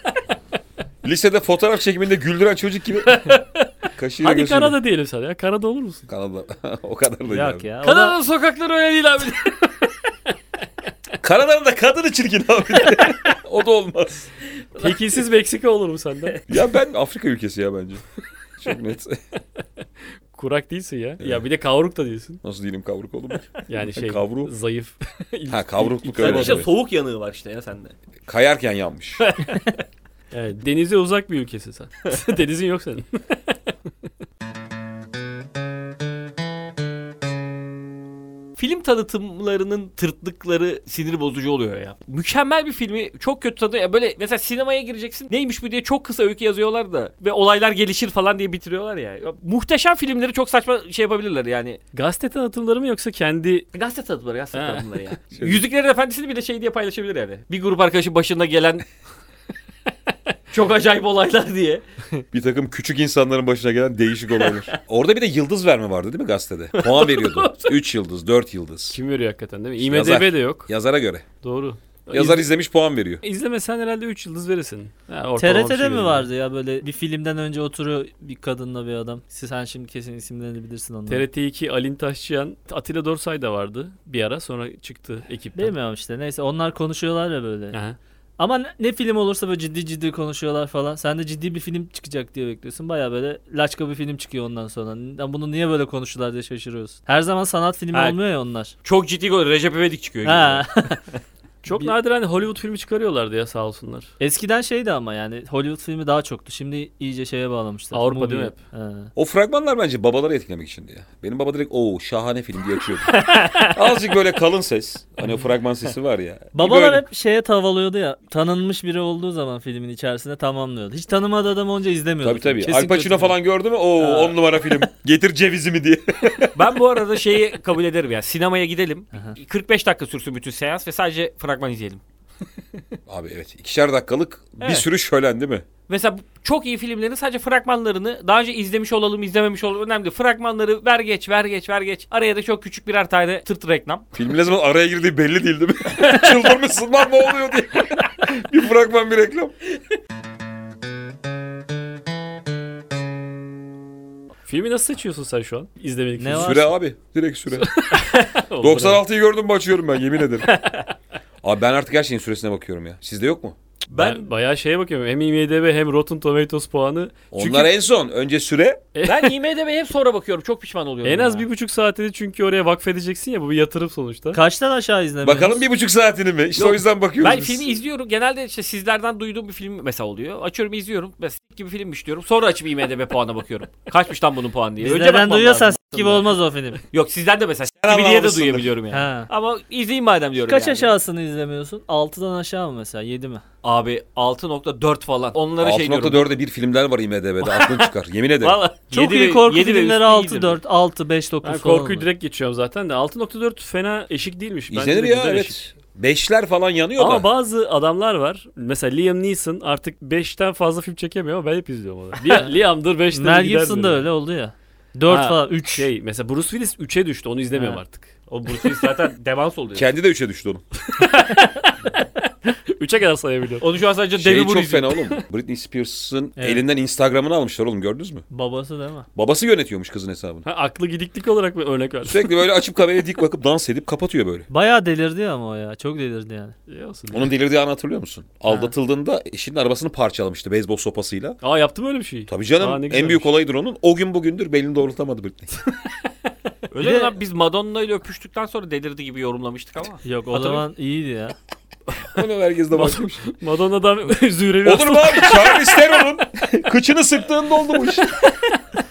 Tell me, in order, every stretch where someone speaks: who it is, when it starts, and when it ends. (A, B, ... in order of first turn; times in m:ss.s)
0:01.0-0:03.4 A
0:03.0-0:03.7 B
0:04.0-0:04.8 A
0:04.2-0:06.0 B
0:06.1-0:07.7 A
0:07.3-0:08.2 C
0:07.8-0:09.7 D
0:11.2-0:14.3 A
0:14.8-0:15.1 D
0:14.8-0:16.4 B
0:16.5-0:18.0 A
0:18.6-0:19.2 A
0:20.3-0:22.4 B
0:22.4-0:24.5 A
0:23.7-0:26.7 B
0:25.5-0:26.7 A
0:26.1-0:27.9 D
0:28.3-0:29.2 A
0:29.2-0:29.8 D
0:30.3-0:33.7 B
0:38.6-0:51.8 D
0:51.9-0:53.7 B
0:53.7-0:58.8 D
0:54.5-0:54.9 B
0:55.4-0:55.6 A
1:00.5-1:01.8 D
1:02.3-1:09.0 A
1:04.4-1:04.7 D
1:06.8-1:07.6 D
1:08.9-1:10.7 B
1:09.8-1:11.3 A
1:11.4-1:12.4 B
1:12.1-1:13.2 A
1:13.2-1:16.3 B
1:15.4-1:21.3 C
1:21.1-1:25.7 B
1:25.6-1:27.8 C
1:28.4-1:38.8 C
1:37.9-1:38.2 D
1:38.8-1:41.0 D
1:40.2-1:41.0 C
1:41.6-1:44.1 B
1:44.2-1:49.1 C
1:47.9-1:48.6 B
1:49.2-1:57.0 A
1:53.1-1:53.7 D
1:56.5-2:03.4 C
2:02.2-2:06.6 A
2:04.0-2:04.3 C
2:06.5-2:12.0 D
2:13.1-2:15.6 A
2:14.6-2:14.9 D
2:15.9-2:24.0 D
2:24.2-2:29.6 A
2:26.1-2:26.4 D
2:34.5-2:36.7 B
2:36.2-2:36.7 C
2:36.3-2:37.9 A
2:37.6-2:39.0 B
2:38.6-2:40.6 A
2:40.5-2:40.9 D
2:41.4-2:43.6 A
2:43.9-2:44.3 D
2:43.9-2:47.7 B
2:47.3-2:48.8 A
2:49.0-2:49.3 B
2:49.0-2:51.5 D
2:51.0-2:54.4 B
2:54.3-2:55.6 C
2:55.2-2:57.7 A
2:56.6-3:06.3 D
3:04.8-3:06.8 C
3:06.8-3:10.9 D
3:07.8-3:08.7 A
3:08.9-3:09.3 C
3:10.5-3:13.4 C
3:13.6-3:16.3 D
3:15.6-3:18.6 A
3:17.4-3:17.9 D
3:18.4-3:20.6 D
3:18.9-3:22.1 C
3:21.4-3:25.6 B
3:24.7-3:27.3 A
3:27.0-3:34.1 B
3:32.2-3:32.5 C
3:33.1-3:35.9 C
3:35.1-3:38.1 B
3:37.5-3:37.8 C
3:38.3-3:39.9 D
3:39.8-3:40.6 A
3:40.9-3:43.6 B
3:43.6-3:45.1 D
3:44.2-3:48.2 A
3:46.4-3:46.6 C
3:48.3-3:49.1 C
3:49.2-3:50.5 A
3:50.4-3:52.3 B
3:52.0-3:54.5 A
3:54.5-3:56.6 C
3:56.7-3:57.3 B
3:57.1-4:01.4 A
4:01.4-4:03.3 B
4:02.3-4:05.5 A
4:06.7-4:10.5 D
4:06.8-4:07.1 C
4:10.0-4:11.4 C
4:12.1-4:13.2 A
4:12.7-4:15.8 B
4:14.6-4:18.2 A